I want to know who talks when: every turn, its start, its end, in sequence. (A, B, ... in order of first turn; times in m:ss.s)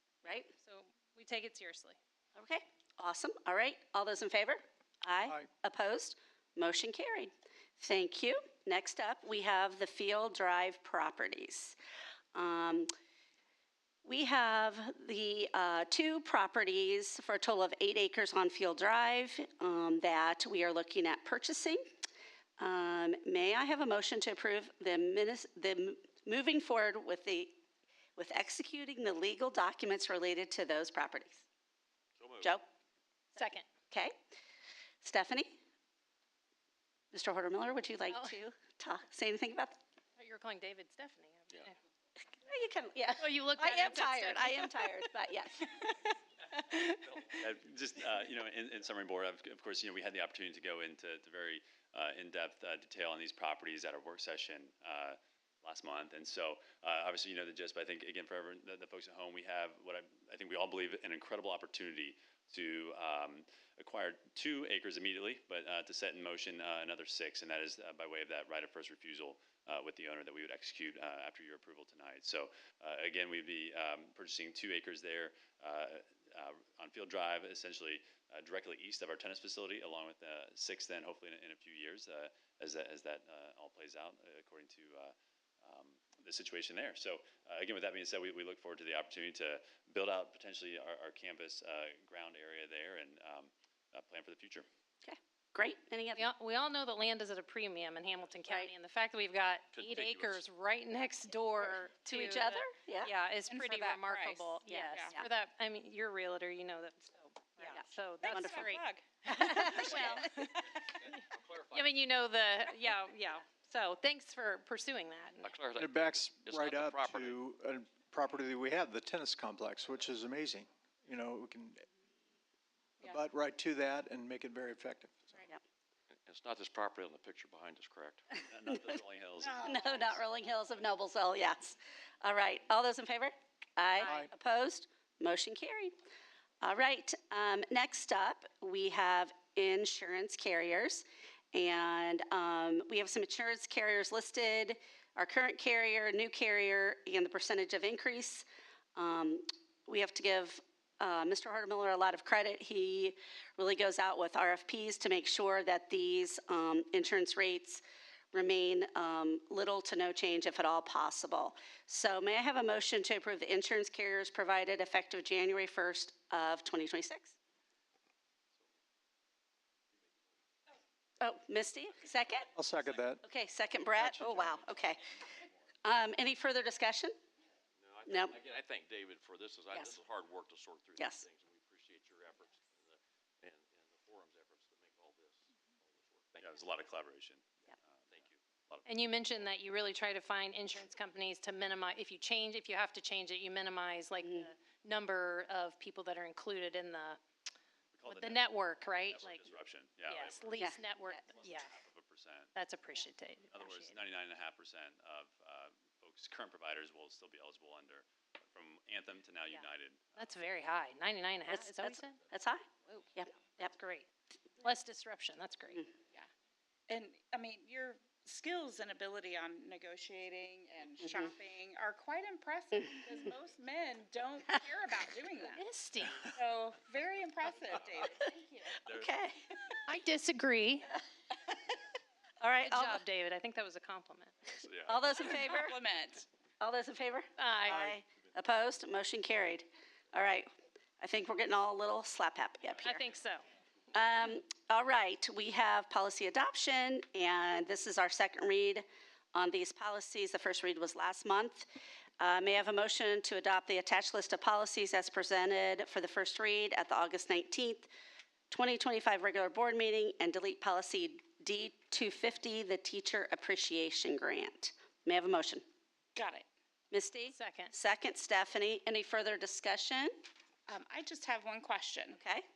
0:00.2-0:00.5 A
0:00.3-0:02.0 B
0:02.4-0:11.8 A
0:12.3-0:12.9 A
0:14.0-0:21.8 A
0:22.6-0:27.6 A
0:28.2-0:31.4 A
0:32.2-0:32.6 C
0:33.3-0:33.6 B
0:35.0-0:35.6 A
0:37.1-0:39.8 A
0:38.1-0:38.4 B
0:40.2-0:41.8 B
0:42.4-0:47.1 A
0:43.2-0:44.9 B
0:47.4-1:34.7 D
1:35.0-1:36.3 A
1:36.2-1:50.5 B
1:39.8-1:40.4 C
1:42.1-1:43.1 A
1:43.5-1:45.2 E
1:44.7-1:45.2 A
1:47.7-1:48.7 A
1:48.2-1:50.2 E
1:49.3-1:50.4 A
1:51.0-1:51.9 C
1:51.7-1:55.5 B
1:55.4-1:57.4 C
1:55.8-2:01.8 F
2:03.0-2:05.4 F
2:06.2-2:08.3 C
2:08.4-2:10.2 D
2:09.4-2:10.0 E
2:09.6-2:15.9 A
2:14.0-2:14.3 F
2:16.6-2:47.3 A
2:51.2-2:52.5 A
2:52.6-2:53.2 F
2:53.2-2:55.0 A
2:54.0-2:54.6 F
2:55.8-2:57.2 A
2:57.8-3:06.6 C
2:58.1-2:58.4 A
3:01.0-3:01.2 A
3:06.4-3:08.9 D
3:08.9-3:17.2 B
3:14.2-3:14.5 A
3:17.9-3:18.4 D
3:18.1-3:19.4 B
3:19.1-3:22.5 D
3:20.1-3:21.7 B
3:20.6-3:21.1 A
3:22.6-3:24.0 B
3:23.5-3:30.2 D
3:30.2-3:32.2 B
3:31.5-3:33.7 A
3:33.6-3:34.1 B
3:34.6-3:35.8 B
3:36.9-3:45.6 E
3:45.5-3:46.3 B
3:46.3-3:48.9 E
3:48.8-3:49.1 D
3:48.9-3:49.4 A
3:49.9-3:51.0 B
3:52.4-3:53.0 A
3:52.6-3:54.4 B
3:54.6-3:55.0 D
3:54.9-3:55.8 A
3:55.4-3:56.2 E
3:56.6-4:03.0 A
3:57.4-3:58.0 B
4:02.8-4:03.4 B
4:03.9-4:11.7 A
4:12.2-4:17.9 A
4:18.5-4:25.6 A
4:26.1-4:26.4 E
4:26.9-4:30.1 A
4:27.3-4:27.7 B
4:30.7-4:32.2 E
4:32.1-4:32.4 A